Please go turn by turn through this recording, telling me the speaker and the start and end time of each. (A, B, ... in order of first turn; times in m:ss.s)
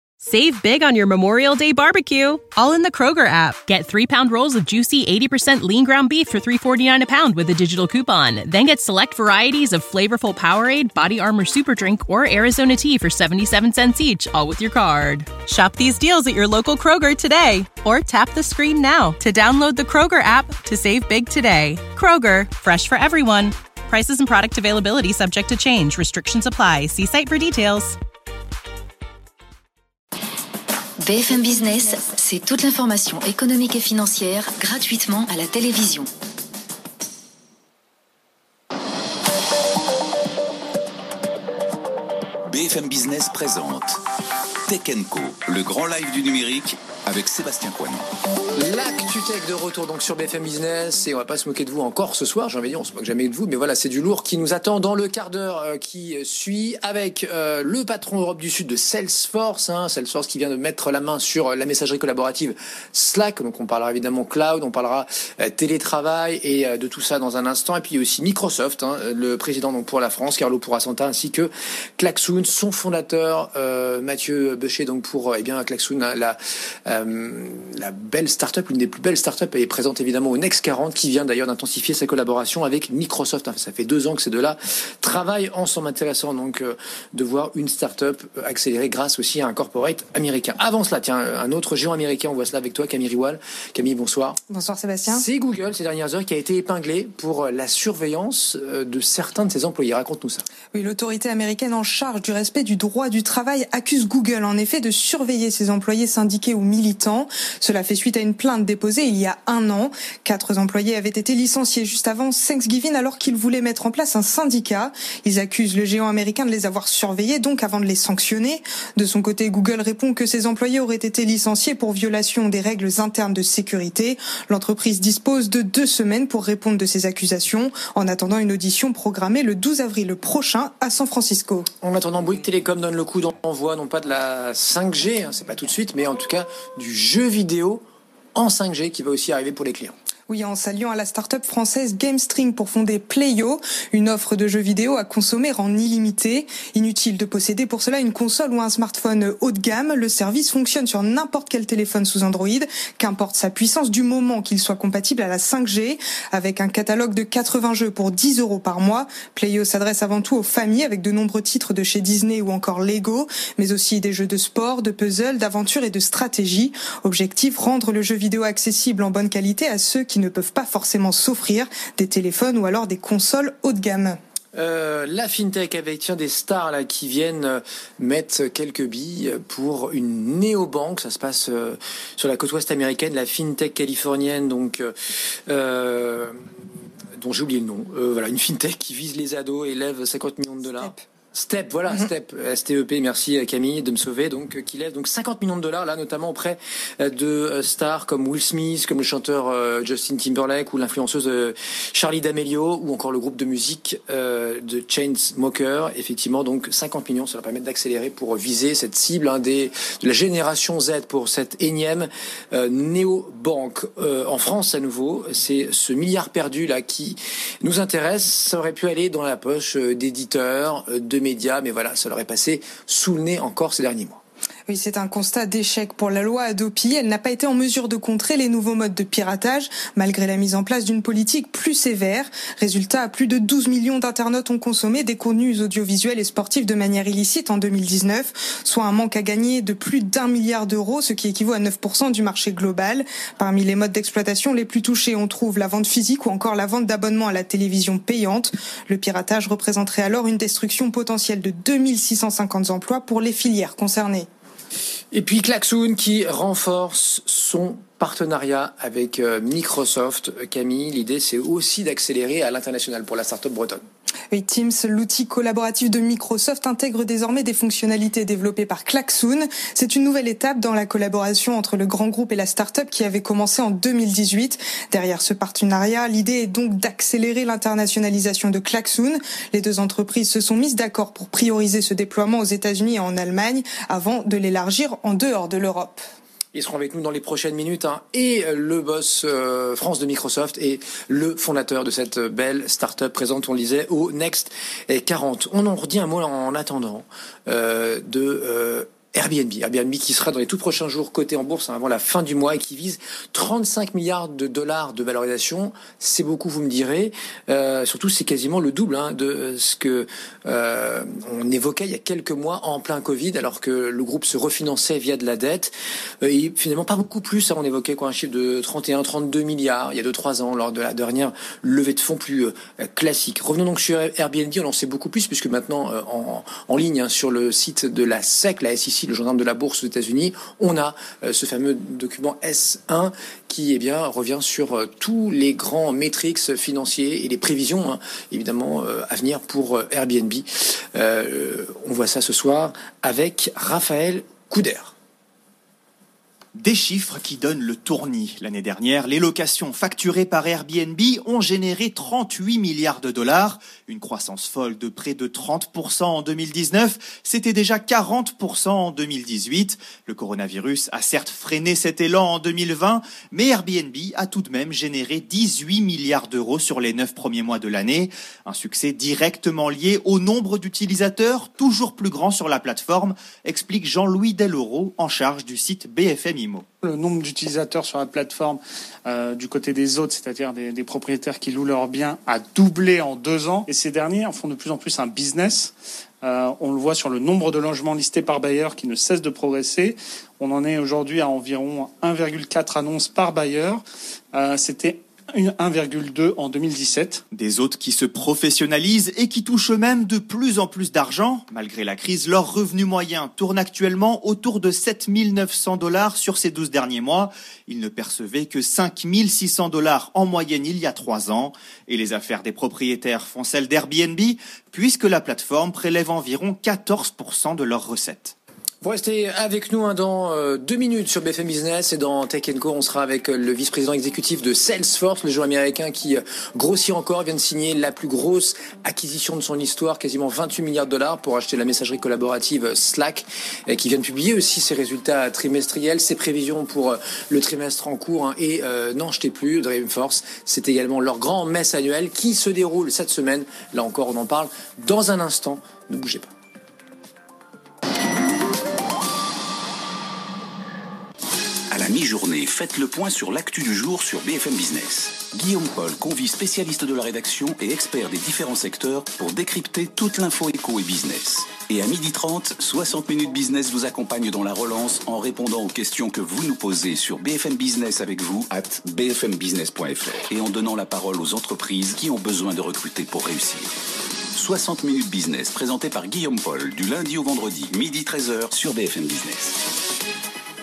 0:00.2-0:28.0 A
0:31.0-0:36.1 B
0:42.4-0:44.0 C
0:44.7-0:48.0 C
0:48.5-1:34.4 D
1:34.5-1:35.2 E
1:35.1-1:40.4 D
1:40.7-2:11.7 E
2:11.8-2:17.8 D
2:18.3-2:19.9 D
2:20.3-2:54.2 E
2:54.5-3:06.4 D
3:07.2-3:44.2 D
3:44.7-4:14.3 E
4:15.1-4:23.8 D
4:24.3-4:46.0 E
4:46.5-5:44.9 D
5:46.6-6:16.6 F
6:16.8-6:25.7 G
6:26.2-6:33.8 G
6:34.3-6:37.2 G
6:37.3-6:49.6 F
6:50.2-6:52.2 F
6:53.4-6:54.9 F
6:56.3-6:56.8 F
6:58.8-7:26.3 D
7:31.7-7:53.7 C
7:54.3-7:59.7 C